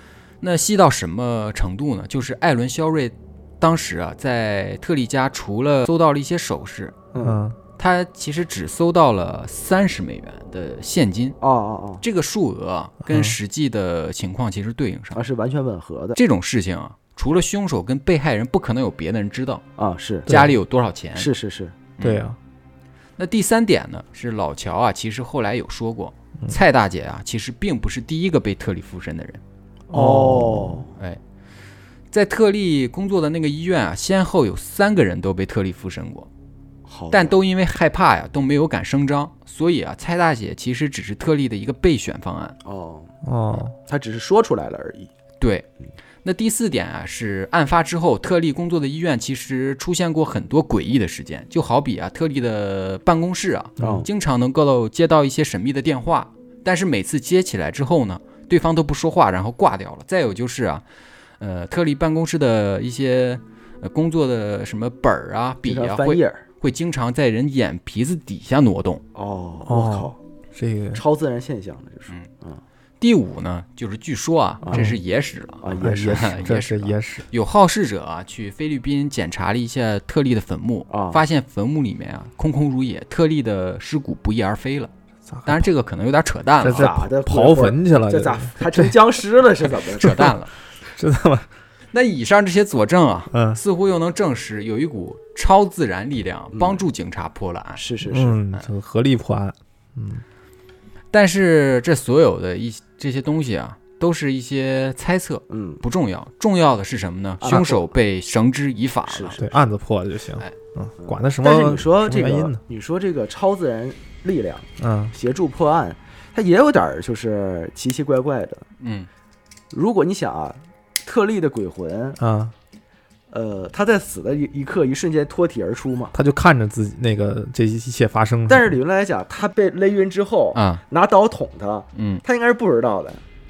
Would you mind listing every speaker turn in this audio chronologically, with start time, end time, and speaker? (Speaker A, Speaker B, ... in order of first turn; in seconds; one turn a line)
Speaker A: 0.4-7.0
Speaker B: 7.1-7.4
Speaker C: 7.2-7.6
Speaker A: 7.8-11.4
Speaker B: 11.4-12.0
Speaker A: 12.0-15.2
Speaker C: 13.1-13.4
Speaker B: 15.1-16.2
Speaker A: 16.2-19.6
Speaker B: 19.8-20.3
Speaker C: 20.3-20.5
Speaker A: 20.3-21.3
Speaker B: 21.2-21.8
Speaker A: 22.0-22.2
Speaker C: 22.0-22.4
Speaker A: 23.2-29.4
Speaker C: 29.9-30.9
Speaker B: 29.9-30.9
Speaker A: 30.9-31.2
Speaker A: 32.1-36.3
Speaker B: 36.9-37.4
Speaker A: 37.1-42.6
Speaker B: 42.6-43.1
Speaker C: 43.2-43.8
Speaker B: 43.8-45.1
Speaker A: 45.4-45.7
Speaker A: 46.2-60.9
Speaker C: 53.8-54.0
Speaker B: 53.8-54.1
Speaker A: 61.4-69.0
Speaker B: 65.6-66.4
Speaker B: 69.1-70.2
Speaker C: 69.7-71.0
Speaker B: 70.9-72.6
Speaker A: 73.0-84.9
Speaker B: 74.6-75.0
Speaker C: 74.7-75.0
Speaker B: 75.6-76.4
Speaker C: 75.8-77.3
Speaker B: 80.9-81.2
Speaker C: 85.3-85.7
Speaker A: 85.5-86.9
Speaker C: 86.6-89.0
Speaker B: 86.7-90.3
Speaker A: 89.9-90.5
Speaker C: 90.0-90.3
Speaker C: 90.9-91.5
Speaker A: 91.9-97.8
Speaker C: 93.3-93.6
Speaker B: 96.5-96.8
Speaker B: 97.8-98.4
Speaker C: 98.1-100.2
Speaker A: 101.1-109.4
Speaker B: 105.5-105.8
Speaker B: 107.4-107.9
Speaker B: 109.1-109.7
Speaker C: 109.4-112.6
Speaker B: 111.1-118.6
Speaker C: 114.8-115.1
Speaker A: 118.8-119.1
Speaker B: 119.7-122.2
Speaker C: 122.2-122.5
Speaker B: 123.3-126.1
Speaker C: 126.1-128.8
Speaker B: 128.5-133.2
Speaker A: 130.6-130.8
Speaker A: 131.9-132.2